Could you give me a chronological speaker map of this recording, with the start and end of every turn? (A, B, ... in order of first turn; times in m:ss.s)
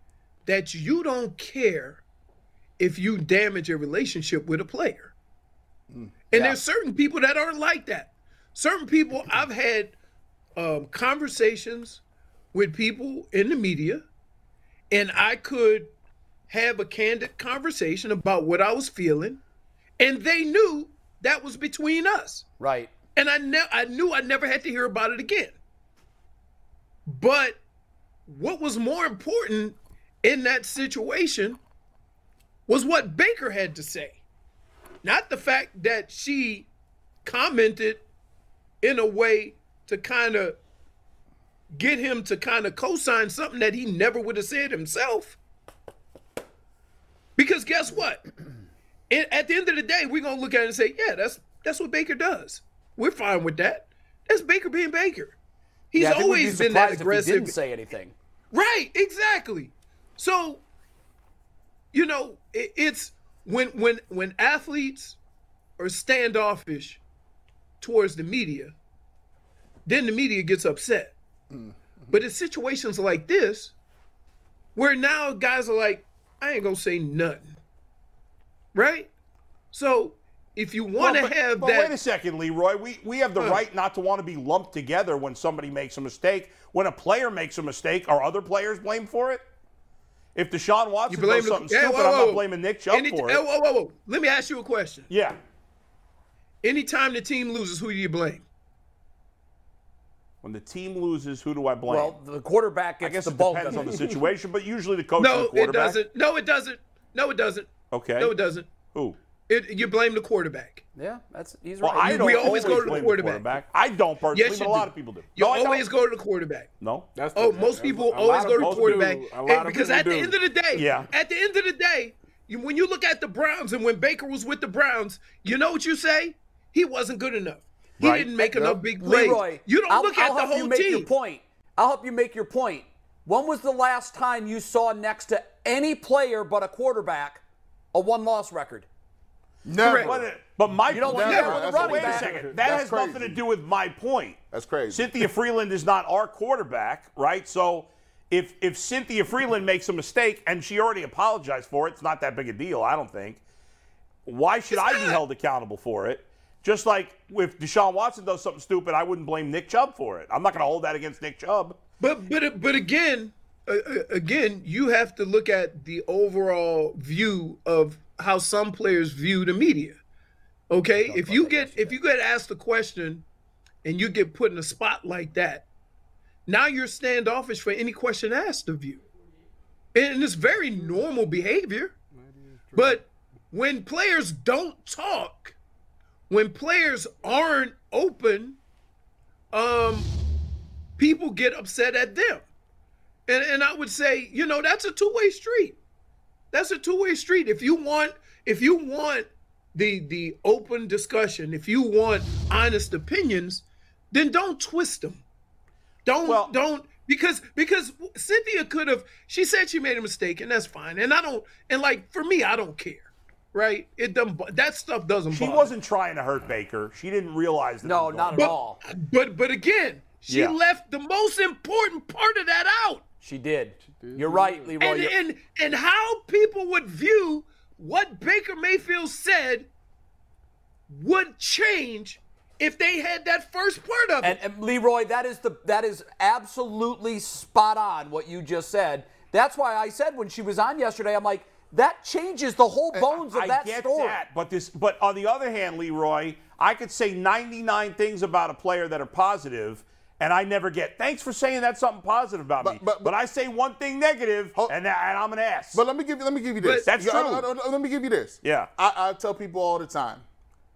0:00.4-0:02.0 A
0:02.8-0:05.1 A
0:06.3-0:10.0 A
0:06.3-0:06.6 B
0:10.6-0:12.0 A
0:12.5-0:14.0 A
0:14.9-0:15.9 A
0:16.5-0:19.4 A
0:20.0-0:22.4 A
0:22.6-0:22.9 B
0:23.2-0:25.6 A
0:27.1-0:27.6 A
0:28.3-0:31.6 A
0:32.7-0:34.2 A
0:35.0-0:36.7 A
0:37.2-0:38.0 A
0:38.8-0:40.6 A
0:41.7-0:45.4 A
0:47.4-0:48.3 A
0:49.1-0:55.4 A
0:55.9-0:57.6 A
0:56.0-0:58.1 B
0:58.5-1:00.6 A
1:01.9-1:05.2 A
1:05.8-1:07.0 A
1:07.8-1:08.7 A
1:09.8-1:11.1 A
1:12.1-1:13.7 A
1:14.7-1:17.5 A
1:18.7-1:19.1 A
1:19.7-1:21.9 A
1:21.0-1:29.4 C
1:23.4-1:23.6 A
1:30.3-1:33.4 C
1:31.1-1:35.1 A
1:35.1-1:35.4 C
1:36.6-1:38.4 A
1:40.4-1:42.2 C
1:41.9-1:44.0 B
1:43.0-1:46.0 C
1:45.2-1:48.8 A
1:47.9-1:48.4 C
1:48.9-1:49.2 C
1:49.5-1:50.8 A
1:51.0-1:53.1 B
1:51.8-1:55.9 C
1:52.0-1:53.5 A
1:54.3-1:56.7 A
1:56.8-1:57.1 C
1:57.1-2:00.4 D
1:57.3-2:11.1 A
1:58.6-1:59.2 C
2:00.7-2:01.1 C
2:08.0-2:08.3 C
2:08.4-2:08.8 E
2:09.0-2:17.4 B
2:17.9-2:18.9 B
2:19.6-2:20.3 E
2:19.8-2:20.2 A
2:20.0-2:33.4 C
2:20.9-2:22.3 B
2:20.9-2:23.4 E
2:21.3-2:21.6 A
2:24.5-2:25.3 E
2:34.2-2:41.8 C
2:34.7-2:35.2 A
2:42.0-2:50.0 A
2:50.7-2:53.2 A
2:51.1-2:51.9 B
2:51.2-2:51.6 C
2:53.8-2:55.6 A
2:56.5-2:59.0 A
2:59.9-3:01.9 A
3:02.2-3:03.0 D
3:02.7-3:05.6 A
3:06.3-3:08.6 A
3:09.5-3:10.1 A
3:11.0-3:12.4 A
3:13.3-3:15.8 A
3:16.5-3:25.2 A
3:26.0-3:35.7 A
3:26.2-3:26.5 C
3:35.3-3:38.5 C
3:37.8-3:38.8 B
3:38.4-3:43.0 A
3:40.3-3:40.6 C
3:43.2-3:45.2 B
3:43.9-3:44.8 D
3:44.8-3:49.7 A
3:50.9-3:54.4 A
3:54.2-4:04.2 B
4:03.2-4:15.8 C
4:12.6-4:13.1 E
4:15.7-4:20.2 E
4:16.6-4:16.9 A
4:16.7-4:17.4 C
4:18.4-4:18.7 C